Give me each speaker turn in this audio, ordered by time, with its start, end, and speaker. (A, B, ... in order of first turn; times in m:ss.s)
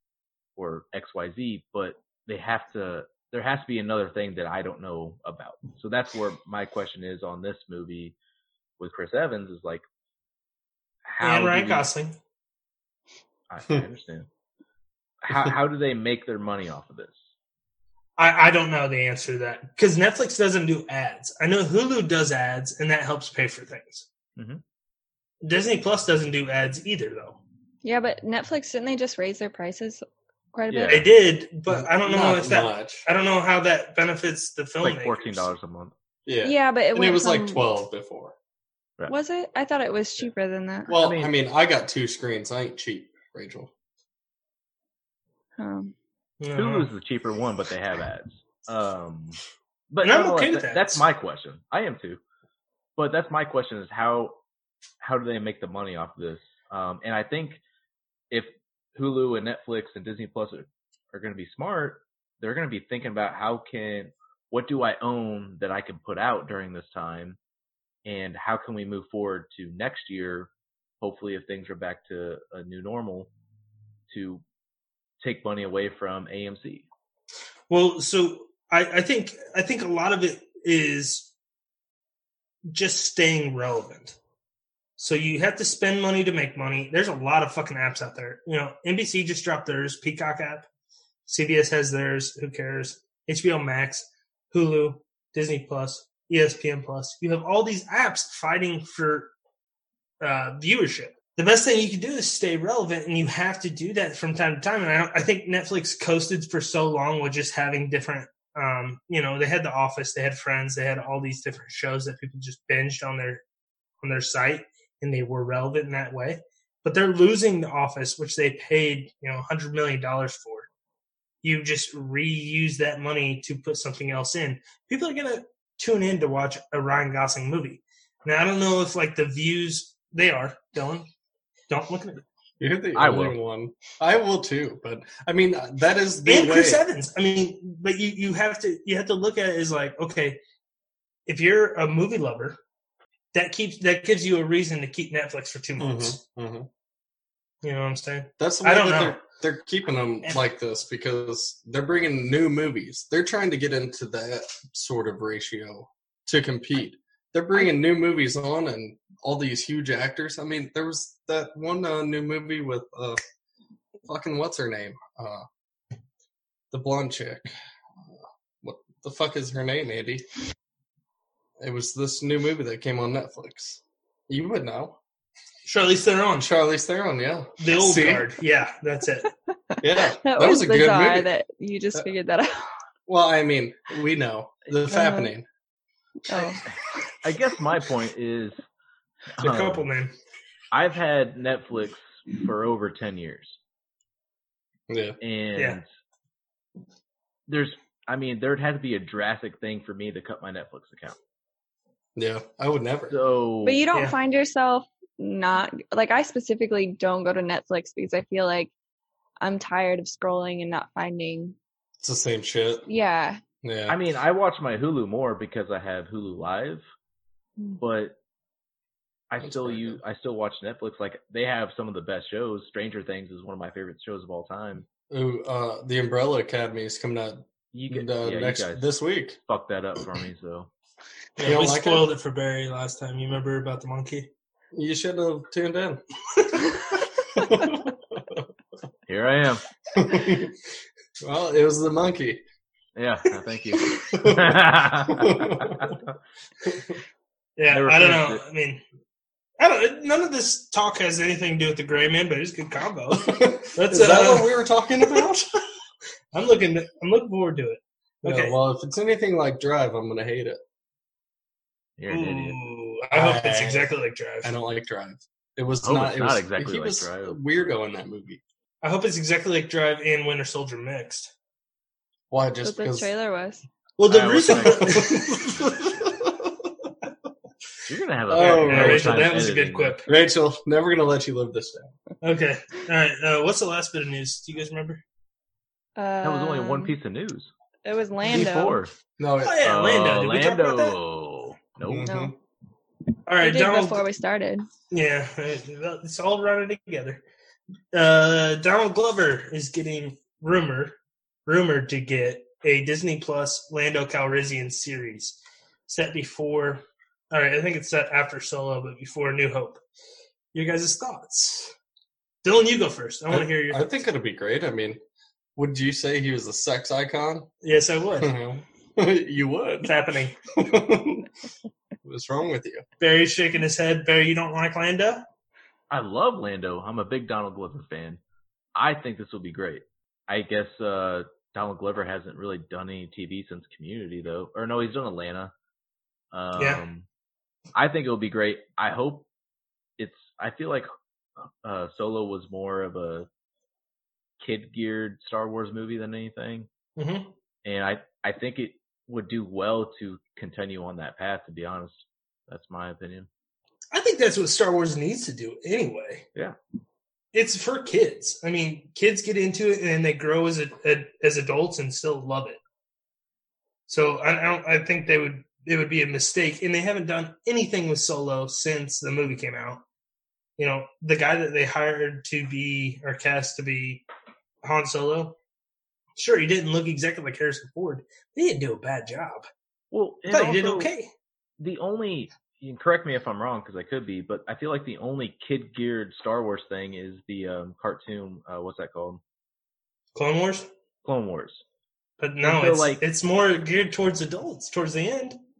0:00.6-0:08.1 A
0:08.8-0:09.8 A
0:11.0-0:11.9 A
0:11.2-0:12.2 B
0:13.5-0:14.3 A
0:15.2-0:17.3 A
0:18.2-0:24.0 B
0:24.4-0:24.6 A
0:25.4-0:27.4 B
0:27.8-0:31.1 C
0:30.7-0:31.1 A
0:30.9-0:35.5 B
0:31.7-0:33.0 D
0:34.8-0:35.9 A
0:36.2-0:38.3 D
0:36.4-0:37.6 C
0:39.1-0:40.9 C
0:40.9-0:41.3 A
0:40.9-0:43.7 D
0:45.6-0:45.9 C
0:46.4-0:46.9 B
0:46.5-0:49.4 A
0:49.9-0:52.2 A
0:50.0-0:51.0 B
0:53.0-0:54.4 A
0:55.0-0:57.6 A
0:58.3-1:07.4 A
1:08.0-1:10.5 A
1:11.0-1:13.3 A
1:14.1-1:14.4 A
1:15.2-1:16.8 A
1:17.7-1:21.3 B
1:22.7-1:24.2 B
1:25.0-1:30.7 B
1:31.2-1:39.3 B
1:40.2-1:53.4 B
1:54.0-2:00.7 B
2:01.4-2:11.1 B
2:11.7-2:12.2 B
2:12.6-2:16.8 D
2:12.9-2:13.4 A
2:16.2-2:20.4 B
2:21.2-2:22.6 B
2:23.3-2:26.2 B
2:25.8-2:26.7 D
2:27.6-2:29.2 B
2:28.4-2:43.2 D
2:44.0-2:45.4 D
2:46.7-2:50.2 D
2:51.6-2:55.0 D
2:55.6-2:56.5 B
2:56.4-2:58.3 D
2:57.6-2:59.3 B
2:59.7-3:02.7 C
2:59.8-3:01.3 D
3:03.1-3:05.4 D
3:04.9-3:05.3 C
3:06.2-3:06.6 C
3:07.2-3:08.6 A
3:09.4-3:09.8 A
3:09.4-3:10.1 B
3:10.7-3:13.6 A
3:14.9-3:15.2 D
3:15.2-3:15.8 A
3:17.5-3:21.2 A
3:22.2-3:23.2 D
3:23.1-3:23.8 A
3:23.6-3:28.7 C
3:29.4-3:31.6 C
3:32.0-3:32.9 D
3:32.9-3:33.4 C
3:33.6-3:34.0 D
3:33.9-3:36.8 A
3:37.8-3:38.2 A
3:39.3-3:44.8 A
3:39.4-3:40.0 D
3:45.1-3:49.4 D
3:47.7-3:50.7 A
3:51.4-3:54.3 B
3:51.4-3:52.1 D
3:54.7-3:56.0 D
3:57.3-3:58.4 D
3:59.1-3:59.6 A
3:59.9-4:00.5 D
4:01.2-4:02.4 D
4:03.0-4:06.1 A
4:04.1-4:06.0 D
4:06.6-4:07.0 D
4:07.6-4:08.8 B
4:07.7-4:08.4 A
4:09.6-4:14.5 B
4:13.3-4:15.6 D
4:16.3-4:18.6 B
4:18.2-4:20.6 D
4:22.0-4:22.7 A
4:22.1-4:24.5 B
4:23.1-4:28.4 D
4:25.8-4:27.4 A
4:28.8-4:31.3 B
4:32.3-4:33.1 D
4:32.6-4:33.6 C
4:34.0-4:35.4 B
4:34.1-4:35.9 A
4:34.5-4:36.5 D
4:37.8-4:40.0 A
4:38.3-4:39.3 D
4:38.3-4:40.1 B
4:40.1-4:41.9 D
4:42.2-4:45.0 B
4:46.0-4:46.9 C
4:46.2-4:47.5 A
4:47.8-4:48.8 C
4:48.2-4:48.9 A
4:49.2-4:49.6 D
4:49.4-4:51.0 B
4:49.6-4:52.1 A
4:51.9-4:52.3 D
4:52.0-4:52.3 C
4:53.3-4:54.0 B
4:53.4-4:54.7 C
4:54.9-4:57.2 B
4:57.9-5:00.9 B
5:01.4-5:09.8 B
5:10.5-5:11.7 B
5:12.4-5:13.9 B
5:13.3-5:15.0 D
5:15.6-5:17.5 D
5:17.6-5:18.3 B
5:18.2-5:20.0 D
5:19.8-5:20.4 B
5:20.5-5:21.3 D
5:22.0-5:22.8 D
5:23.0-5:25.2 B
5:25.9-5:28.2 A
5:28.7-5:35.5 A
5:36.3-5:37.0 A
5:37.7-5:39.2 A
5:40.0-5:40.9 A
5:41.4-5:43.3 A
5:44.4-5:46.7 A
5:47.0-5:47.3 B
5:47.6-5:53.3 A
5:53.9-5:56.2 B
5:57.3-6:02.6 B
6:03.9-6:09.8 B
6:10.6-6:14.0 B
6:14.6-6:15.4 B
6:16.2-6:19.5 B
6:19.9-6:20.9 A
6:20.3-6:21.1 B
6:21.6-6:29.2 A
6:30.1-6:30.7 B
6:31.0-6:31.6 A
6:32.2-6:35.4 B
6:32.4-6:33.0 A